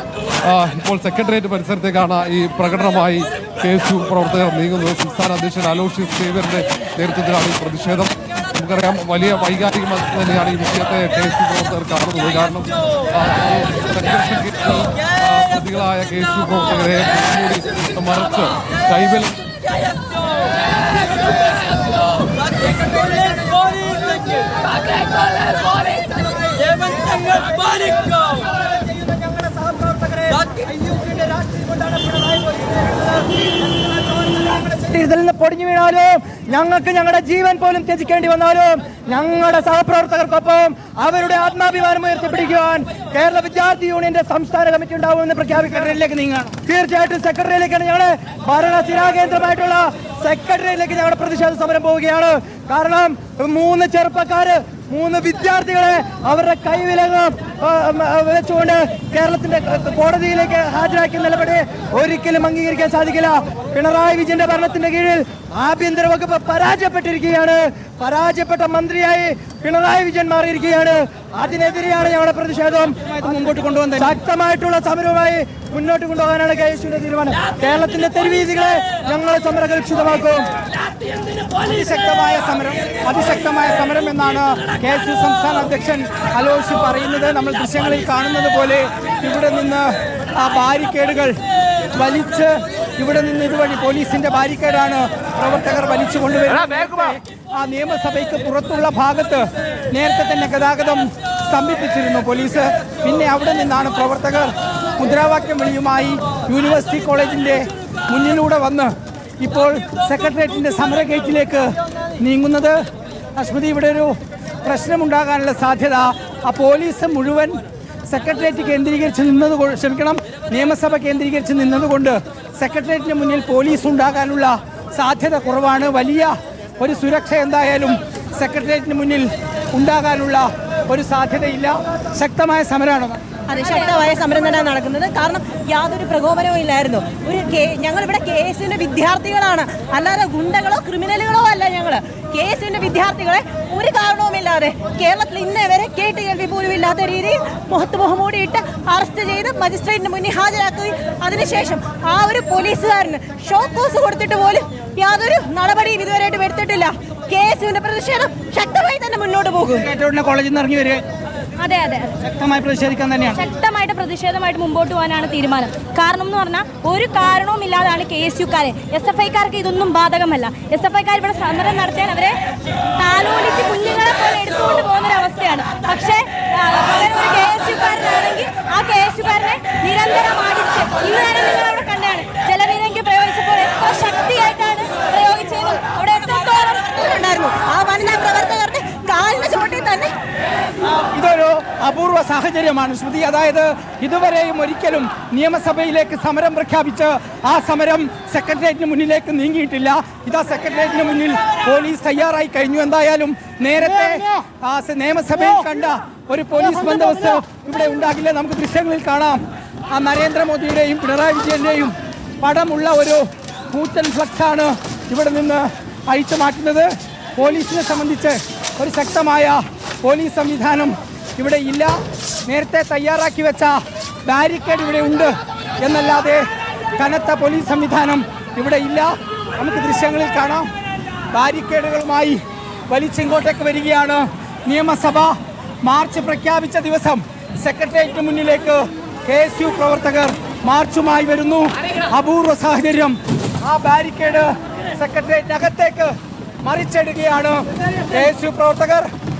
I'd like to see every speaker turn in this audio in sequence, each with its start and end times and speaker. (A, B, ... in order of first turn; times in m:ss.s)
0:00.5-0:19.4 A
0:34.6-0:46.0 B
0:45.8-0:46.5 C
0:46.5-1:13.0 B
1:13.1-1:14.1 C
1:14.0-1:20.4 B
1:21.5-1:31.4 C
1:31.9-1:52.8 C
1:53.4-2:13.2 C
2:13.5-2:39.9 D
2:13.5-2:14.0 E
2:39.7-2:41.0 C
2:41.6-2:42.1 E
2:42.2-2:43.4 C
2:43.3-2:52.4 E
2:53.0-3:06.8 E
3:06.1-3:10.1 D
3:10.9-3:50.7 C
3:51.3-4:09.1 C